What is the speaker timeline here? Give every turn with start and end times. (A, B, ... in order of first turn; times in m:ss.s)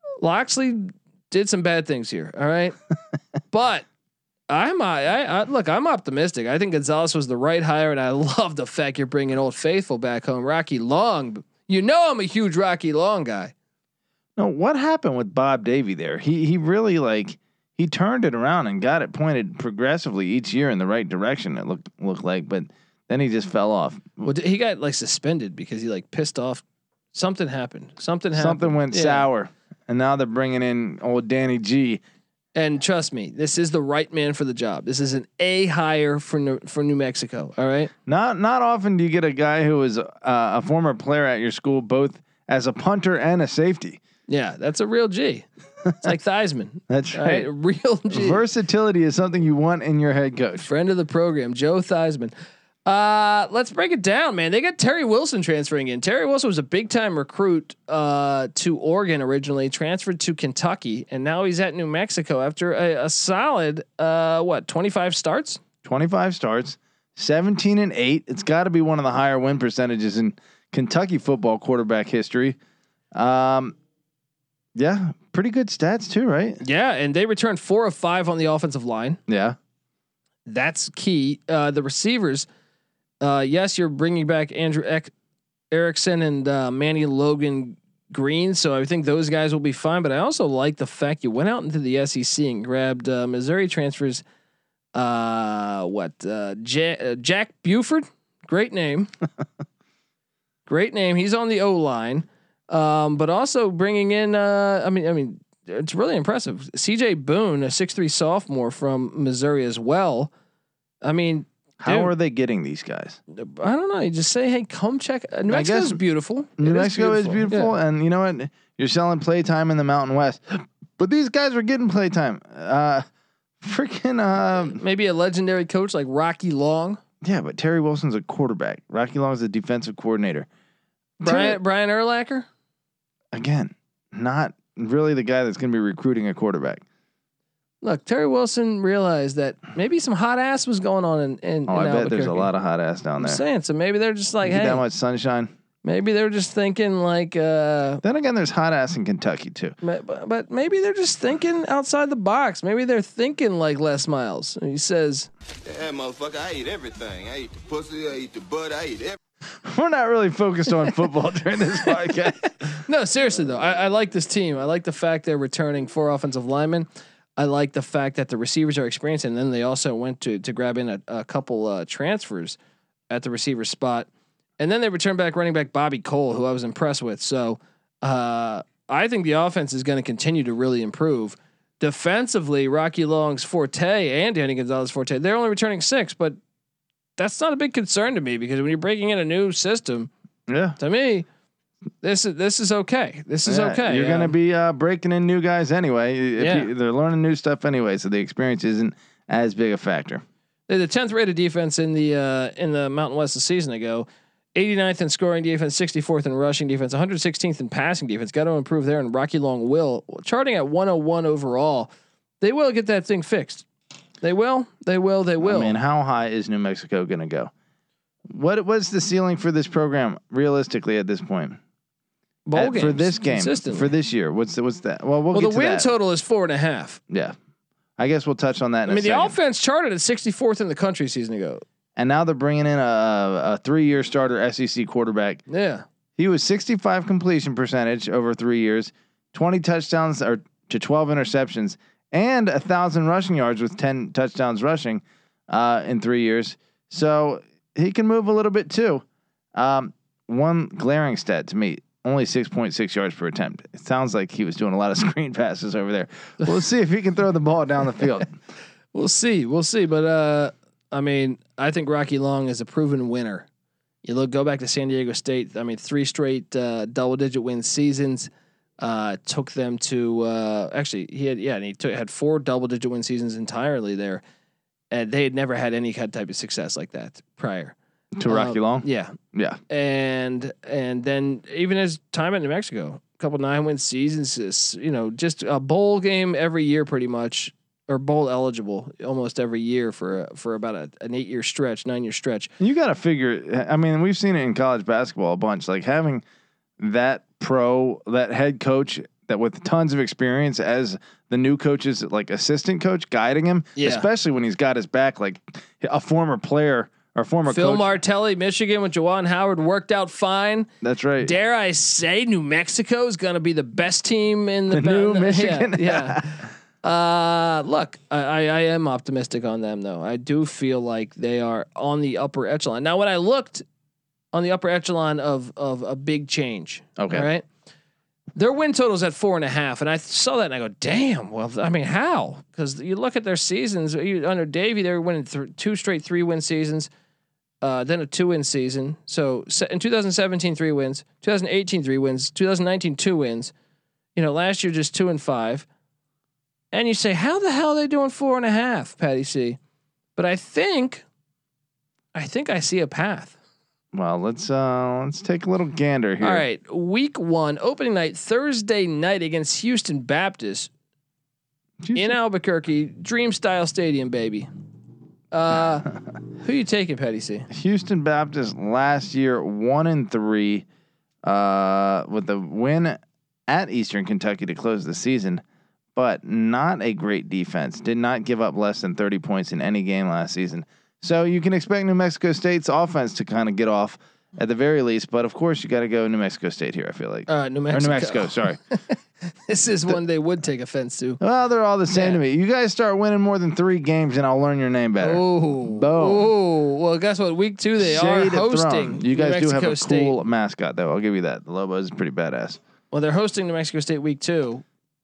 0:00.2-0:02.8 A
0:03.5-0:03.9 A
0:04.5-0:13.5 A
0:14.4-0:24.3 B
0:24.2-0:29.3 A
0:28.4-0:32.0 B
0:32.6-0:37.9 A
0:38.1-0:44.0 B
0:44.3-0:45.5 A
0:46.0-0:48.4 A
0:46.9-0:47.5 B
0:48.1-0:50.7 B
0:50.6-0:52.3 A
0:52.8-1:05.6 A
1:05.8-1:12.6 B
1:13.2-1:13.8 B
1:14.8-1:16.6 B
1:16.6-1:19.2 A
1:19.3-1:19.6 B
1:20.5-1:22.5 A
1:23.2-1:25.1 A
1:25.7-1:34.2 A
1:35.0-1:39.1 A
1:40.7-1:50.3 A
1:51.0-1:52.1 A
1:51.8-1:53.2 B
1:53.3-1:57.7 A
1:55.5-1:56.0 B
1:56.6-2:03.0 B
2:03.6-2:04.8 B
2:04.8-2:07.0 A
2:07.2-2:10.5 B
2:11.2-2:11.6 B
2:11.2-2:12.5 A
2:13.3-2:16.8 B
2:17.8-2:22.5 A
2:21.7-2:23.4 B
2:23.2-2:24.8 A
2:24.4-2:25.5 B
2:25.8-2:28.0 A
2:28.0-2:29.8 B
2:29.8-2:35.3 A
2:35.7-2:39.2 C
2:39.6-2:42.7 B
2:42.7-2:52.6 A
2:53.1-2:54.1 A
2:54.6-3:06.4 A
3:07.2-3:10.1 A
3:10.5-3:10.8 B
3:10.8-3:11.3 A
3:12.0-3:14.3 A
3:13.5-3:20.2 B
3:16.4-3:16.7 A
3:20.7-3:31.9 A
3:32.4-3:33.7 A
3:34.2-3:35.8 A
3:35.4-3:37.5 B
3:38.3-3:41.6 B
3:42.5-3:43.9 A
3:42.6-3:45.9 B
3:45.3-3:47.0 A
3:47.1-3:47.4 B
3:48.0-3:49.4 B
3:48.9-3:51.6 A
3:52.0-3:55.4 B
3:55.5-3:55.8 A
3:56.2-4:09.0 B
4:09.6-4:18.3 B
4:18.9-4:23.5 A
4:24.0-4:34.2 A
4:34.9-4:37.8 A
4:38.2-4:39.6 B
4:38.3-4:39.2 A
4:39.7-4:52.5 A
4:52.6-4:56.2 B
4:56.8-5:08.0 B
5:03.8-5:04.1 A
5:07.5-5:10.7 A
5:10.8-5:11.4 B
5:11.2-5:23.6 A
5:14.7-5:16.4 B
5:24.3-5:27.4 A
5:27.0-5:27.3 B
5:28.4-5:36.9 A
5:37.6-5:43.5 A
5:44.2-5:45.7 A
5:46.7-5:49.6 A
5:50.2-5:51.0 A
5:52.2-5:53.4 A
5:53.9-5:56.4 B
5:56.2-6:00.7 A
6:01.8-6:02.2 B
6:02.0-6:04.5 A
6:05.3-6:07.5 A
6:07.5-6:10.6 B
6:11.2-6:15.4 B
6:16.0-6:28.6 B
6:27.3-6:31.2 A
6:31.2-6:36.3 B
6:31.9-6:32.2 A
6:35.0-6:40.2 A
6:37.8-6:42.6 B
6:42.9-6:44.6 A